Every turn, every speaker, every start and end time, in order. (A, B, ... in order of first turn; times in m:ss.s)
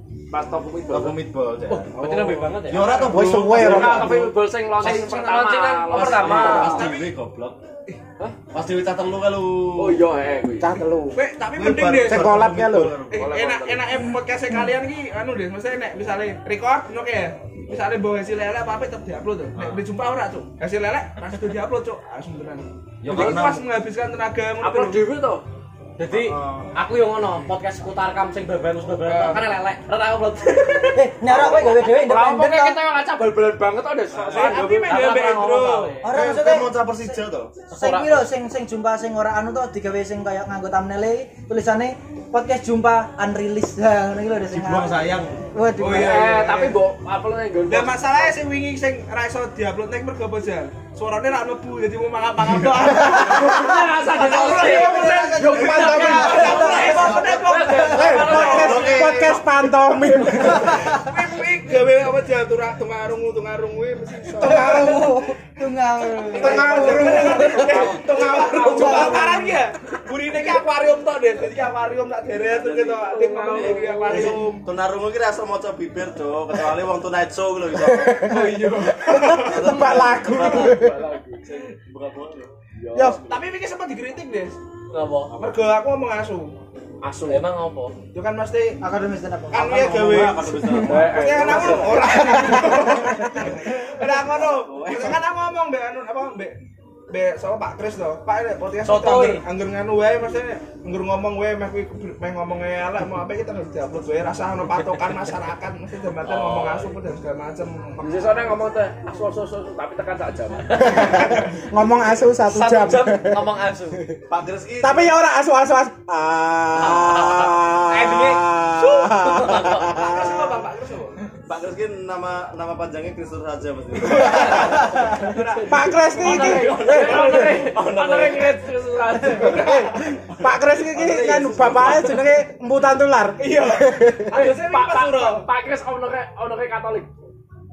0:00.3-0:06.9 A
0:00.9-0:04.3 B
0:01.9-0:03.1 C
0:03.0-0:04.3 D
0:04.8-0:06.8 C
0:05.9-0:07.6 B
0:06.0-0:07.1 E
0:08.5-0:10.0 B
0:09.8-0:10.8 A
0:10.6-0:11.2 D
0:11.1-0:12.4 E
0:11.5-0:13.4 B
0:12.0-0:13.0 D
0:13.1-0:25.0 E
0:13.2-0:13.9 A
0:19.6-0:19.8 B
0:23.0-0:23.7 B
0:23.1-0:23.5 A
0:24.6-0:25.4 A
0:26.0-0:31.0 C
0:26.1-0:26.7 B
0:29.0-0:29.4 A
0:30.8-0:32.8 F
0:31.3-0:35.1 A
0:34.1-0:34.6 B
0:34.3-0:36.1 E
0:34.8-0:36.1 C
0:36.0-0:37.2 F
0:36.1-0:37.6 B
0:37.7-0:38.3 C
0:37.7-0:46.4 F
0:44.5-0:45.4 B
0:45.8-0:46.8 E
0:45.8-0:48.3 A
0:47.7-0:58.6 E
0:52.4-0:53.1 B
0:53.0-0:58.6 F
0:53.0-0:58.7 A
0:54.2-0:55.0 C
0:55.6-0:57.6 B
0:55.6-0:56.6 D
0:56.8-0:59.4 C
0:57.9-1:00.9 D
0:58.2-0:59.4 B
1:00.5-1:01.0 F
1:00.6-1:05.0 E
1:04.3-1:05.3 D
1:04.4-1:07.6 F
1:06.3-1:08.0 D
1:06.3-1:14.7 E
1:06.6-1:09.4 A
1:08.6-1:09.6 F
1:12.5-1:14.5 A
1:14.1-1:18.4 B
1:17.7-1:20.9 D
1:18.2-1:19.4 A
1:18.9-1:19.5 E
1:19.3-1:20.9 B
1:20.2-1:21.8 A
1:21.8-1:22.5 B
1:22.8-1:23.4 A
1:22.9-1:23.2 D
1:23.2-1:24.6 E
1:24.9-1:25.3 C
1:25.4-1:26.6 E
1:27.0-1:27.4 A
1:27.3-1:27.9 C
1:28.1-1:28.8 E
1:28.8-1:29.7 F
1:29.5-1:36.6 E
1:29.5-1:32.2 B
1:30.8-1:32.6 A
1:32.3-1:33.3 D
1:34.4-1:35.2 A
1:37.1-1:48.1 E
1:38.8-1:39.4 C
1:46.2-1:46.9 B
1:48.0-1:50.6 A
1:50.7-1:51.2 C
1:50.8-1:54.2 D
1:51.2-1:51.5 E
1:52.5-1:54.1 C
1:54.3-1:55.1 B
1:54.8-2:00.6 D
1:56.8-2:00.1 C
2:00.0-2:01.2 E
2:01.5-2:05.0 B
2:04.2-2:09.8 A
2:04.2-2:07.6 E
2:05.7-2:07.7 D
2:06.6-2:07.4 C
2:06.9-2:08.6 B
2:09.3-2:10.1 E
2:09.4-2:14.3 D
2:10.3-2:12.4 B
2:13.4-2:15.5 E
2:14.3-2:17.1 A